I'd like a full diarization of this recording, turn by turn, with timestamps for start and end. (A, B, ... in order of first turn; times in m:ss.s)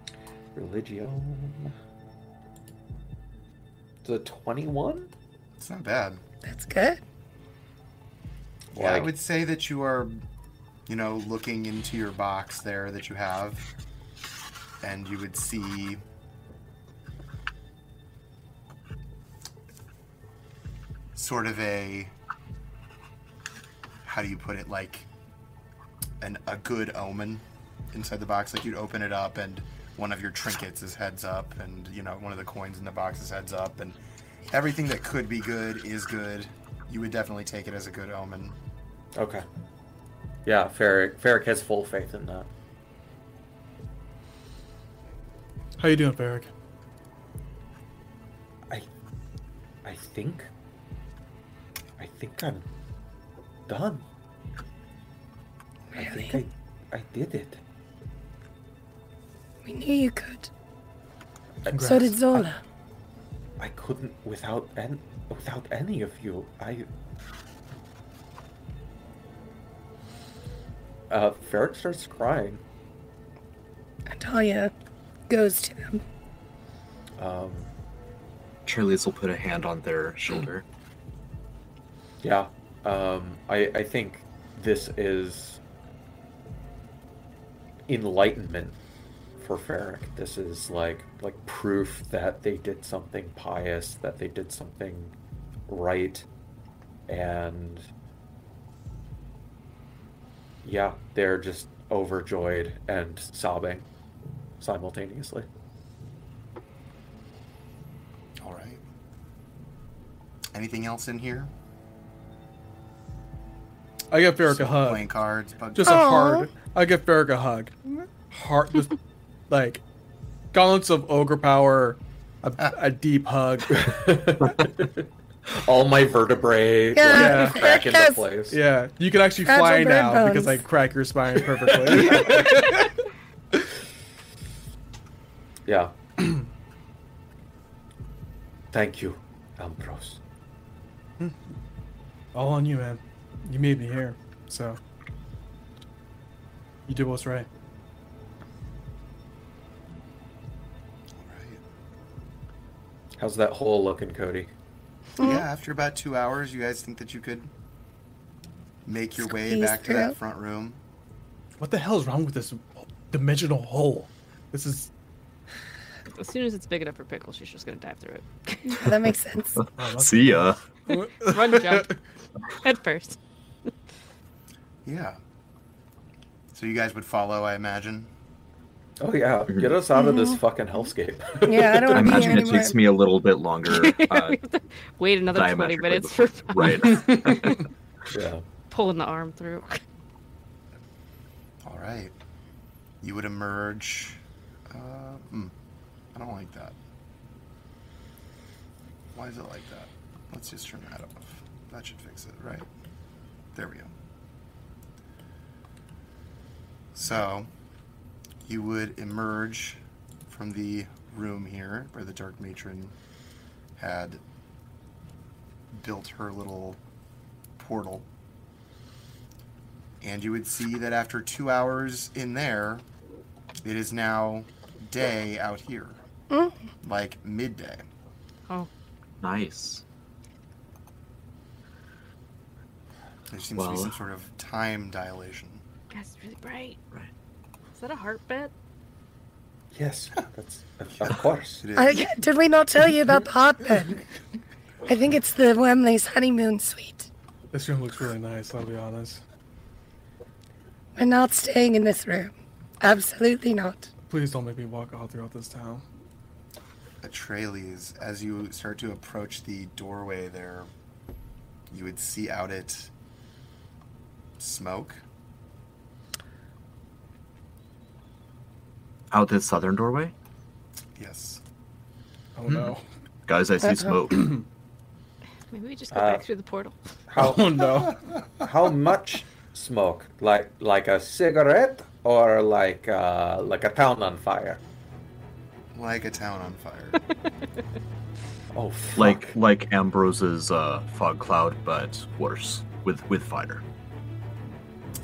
0:00.5-0:01.7 A
0:04.0-0:05.1 A
0:05.6-0:06.2 B
0:06.4-0:07.0 C
0:08.7-0:09.1 A
0:08.8-0:10.2 B
0:10.9-0:13.7 B
0:14.8-0:16.0 B
0:21.1-0:22.1 B
0:24.0-0:25.1 B
0:26.2-0:38.6 B
0:39.1-0:39.4 A
0:40.4-0:42.5 A
0:45.8-0:46.5 D
0:49.8-0:50.5 A
0:52.0-0:52.6 A
0:53.7-0:54.1 A
0:55.9-0:56.4 C
0:55.9-0:57.6 A
0:59.6-1:00.5 C
1:01.6-1:02.0 A
1:01.7-1:02.2 D
1:01.8-1:02.6 C
1:03.6-1:06.9 A
1:11.1-1:12.6 A
1:14.1-1:14.7 C
1:15.3-1:16.0 C
1:17.2-1:17.7 A
1:18.6-1:20.6 E
1:22.2-1:25.6 A
1:27.9-1:28.8 A
1:29.4-1:35.1 A
1:35.7-1:36.2 A
1:37.1-1:37.9 A
1:40.6-1:43.8 A
1:44.6-1:45.5 A
1:48.4-1:48.8 B
1:50.5-1:51.5 B
1:54.1-1:55.0 D
1:54.4-1:56.1 B
1:55.8-1:59.0 D
1:55.8-1:56.5 C
1:59.5-1:59.8 D
2:00.5-2:03.9 D
2:03.7-2:08.6 A
2:06.9-2:08.2 C
2:07.1-2:07.7 D
2:08.5-2:12.9 D
2:09.4-2:10.6 C
2:11.9-2:12.5 A
2:15.6-2:15.9 A
2:18.7-2:20.2 A
2:22.3-2:24.8 D
2:26.9-2:27.5 D
2:31.2-2:31.6 B
2:33.2-2:34.5 A
2:35.2-2:35.4 C
2:35.2-2:37.5 B
2:38.8-2:40.8 B
2:39.3-2:40.1 C
2:41.6-2:44.9 D
2:46.1-2:48.9 F
2:48.7-2:49.6 C
2:49.8-2:51.9 D
2:49.8-2:50.6 E
2:51.2-2:52.0 F
2:52.5-2:53.2 F
2:54.8-2:55.2 B
2:56.5-2:58.1 B
2:59.0-3:02.3 A
2:59.9-3:00.4 C
3:01.4-3:02.8 C
3:01.9-3:04.4 E
3:03.6-3:07.6 F
3:05.3-3:07.6 E
3:08.1-3:08.4 A
3:08.7-3:09.8 F
3:11.6-3:12.1 B
3:13.0-3:15.5 B
3:16.1-3:16.8 B
3:19.1-3:22.7 B
3:23.5-3:23.9 B
3:26.9-3:27.5 B
3:28.4-3:32.9 B
3:33.8-3:34.2 B
3:35.7-3:36.8 B
3:37.6-3:38.1 B
3:40.0-3:42.8 B
3:43.6-3:46.0 B
3:46.8-3:47.9 B
3:49.2-3:49.8 E
3:53.3-3:55.6 B
3:53.5-3:53.9 E
3:55.9-3:56.8 F
3:57.7-3:58.5 F
3:59.7-4:01.6 A
4:01.6-4:02.2 B
4:01.8-4:04.0 C
4:04.8-4:07.1 C
4:07.5-4:09.2 D
4:11.0-4:13.9 C
4:14.1-4:15.8 D
4:17.0-4:20.7 B
4:21.7-4:22.9 B
4:24.4-4:25.0 B
4:29.1-4:30.1 E
4:31.0-4:31.4 B
4:32.4-4:32.8 D
4:33.3-4:34.4 E
4:34.1-4:34.4 D
4:35.5-4:36.8 F
4:35.9-4:36.2 A
4:37.1-4:37.6 A
4:37.2-4:38.0 D
4:38.4-4:44.6 A
4:45.7-4:47.0 B
4:48.5-4:49.3 A
4:49.0-4:53.6 E